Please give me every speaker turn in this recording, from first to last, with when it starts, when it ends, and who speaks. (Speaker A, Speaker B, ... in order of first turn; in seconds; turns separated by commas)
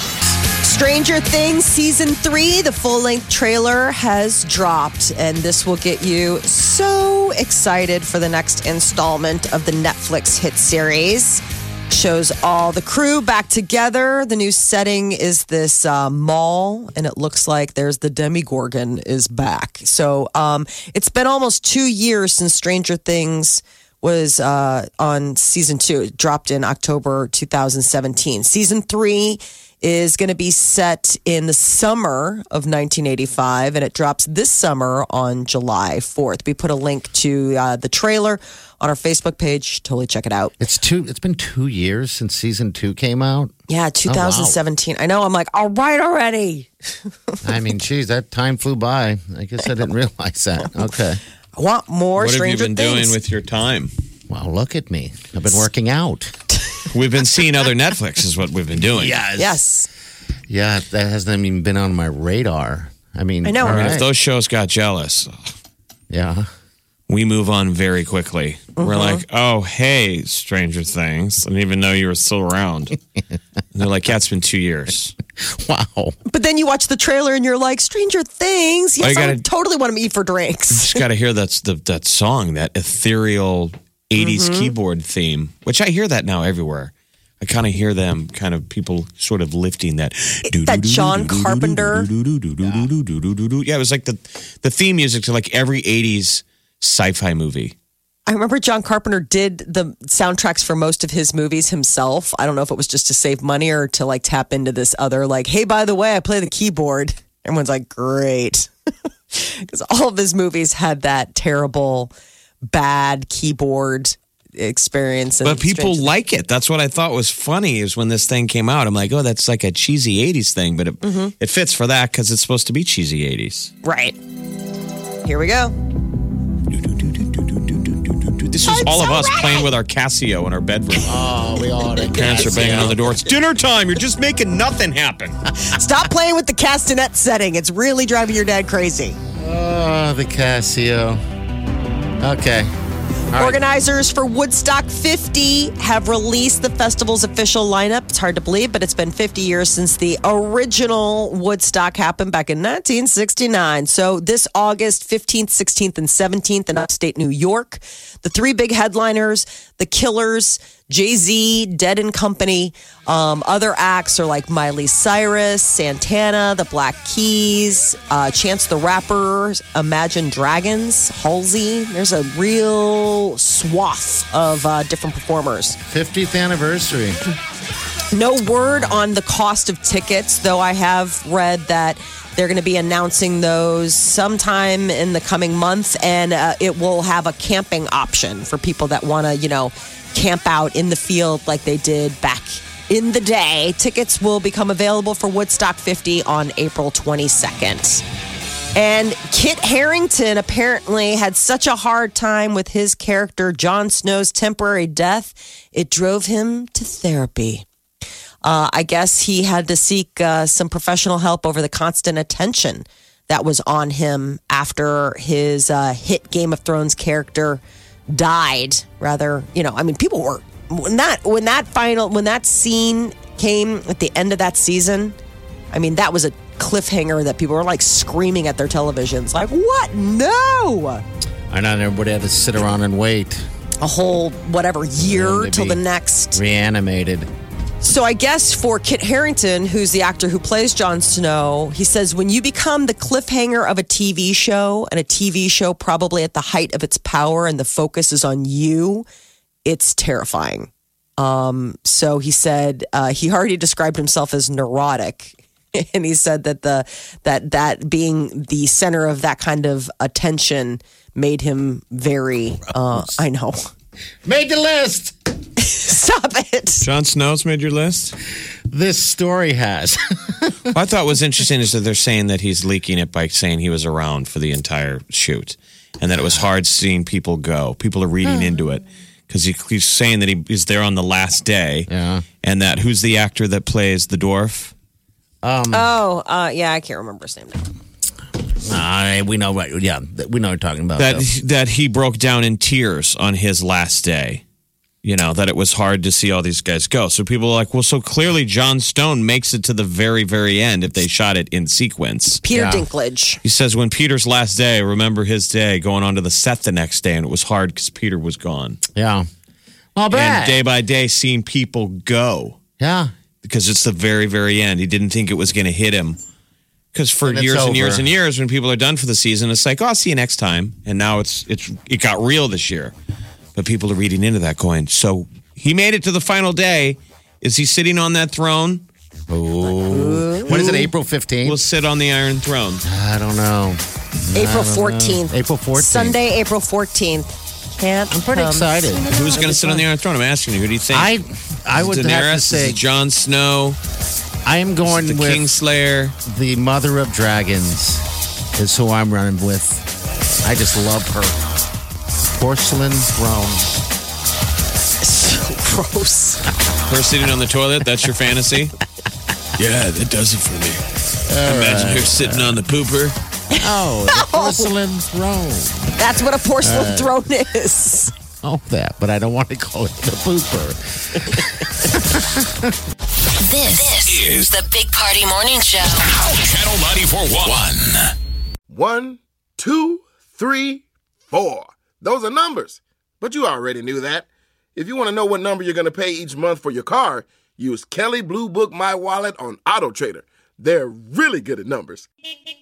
Speaker A: 0.6-40.5, Speaker B: 40.6-43.5, Speaker A: 43.7-46.7, Speaker B: 44.1-44.6, Speaker B: 47.4-51.2, Speaker A: 51.6-53.1, Speaker C: 52.2-53.9, Speaker B: 54.3-56.4, Speaker C: 56.9-59.2, Speaker B: 58.9-59.6, Speaker A: 59.4-59.9, Speaker B: 60.5-64.1, Speaker A: 63.4-64.0, Speaker C: 63.6-65.4, Speaker B: 66.1-66.5, Speaker C: 67.1-73.0, Speaker A: 68.8-69.2, Speaker C: 73.7-75.2, Speaker B: 75.4-76.2, Speaker A: 76.3-81.0, Speaker C: 79.0-79.4, Speaker C: 80.7-97.8, Speaker A: 84.2-84.7, Speaker A: 90.5-92.1, Speaker B: 92.6-92.9, Speaker A: 98.3-108.7, Speaker A: 109.3-112.1, Speaker A: 112.7-116.0, Speaker C: 115.4-123.7, Speaker A: 121.0-121.3, Speaker A: 123.8-124.2, Speaker A: 125.2-125.8, Speaker C: 126.7-131.2, Speaker A: 128.6-129.7, Speaker B: 131.1-133.0, Speaker C: 132.1-135.4, Speaker A: 135.6-139.2, Speaker B: 139.4-141.2, Speaker B: 142.2-142.7, Speaker B: 143.3-143.6, Speaker A: 143.4-175.8, Speaker B: 175.9-177.2, Speaker A: 178.1-198.0, Speaker A: 198.8-207.7, Speaker A: 208.4-225.2, Speaker A: 225.7-231.0, Speaker B: 231.5-233.4, Speaker A: 233.8-236.4, Speaker B: 235.0-235.8, Speaker B: 236.3-237.3, Speaker A: 237.8-249.1, Speaker A: 249.7-263.7, Speaker B: 264.2-265.2, Speaker A: 265.6-266.9, Speaker C: 266.8-268.2, Speaker B: 268.7-270.7, Speaker C: 270.7-281.9, Speaker B: 276.1-276.5, Speaker B: 281.9-282.2, Speaker C: 282.4-284.7, Speaker B: 285.4-285.9, Speaker A: 285.7-287.7, Speaker B: 288.6-291.3, Speaker C: 291.0-294.4, Speaker C: 295.0-302.4, Speaker A: 302.4-303.4, Speaker B: 302.5-302.9, Speaker C: 303.4-308.8, Speaker B: 308.9-309.3, Speaker B: 310.0-310.6, Speaker C: 310.1-312.6, Speaker B: 312.8-313.1, Speaker C: 313.4-316.2, Speaker C: 316.9-322.9, Speaker B: 317.2-318.1, Speaker C: 323.6-328.9, Speaker B: 329.3-331.6, Speaker A: 329.9-330.6, Speaker C: 330.5-330.9, Speaker C: 331.4-332.8, Speaker B: 332.9-336.2, Speaker A: 334.4-339.8, Speaker B: 338.1-339.1, Speaker C: 339.1-341.1, Speaker B: 340.9-342.8, Speaker C: 341.8-343.8, Speaker B: 344.4-345.6, Speaker C: 344.9-346.2, Speaker B: 346.2-348.0, Speaker B: 348.6-349.9, Speaker B: 350.4-351.4, Speaker B: 352.3-353.7, Speaker A: 355.0-356.4, Speaker C: 356.9-358.7, Speaker C: 359.6-360.8, Speaker B: 361.3-362.6, Speaker C: 361.4-363.1, Speaker A: 363.5-364.7, Speaker B: 363.6-367.1, Speaker A: 366.0-368.1, Speaker B: 368.4-372.8, Speaker D: 373.4-376.0, Speaker E: 373.8-374.5, Speaker E: 376.1-378.1, Speaker F: 378.7-392.1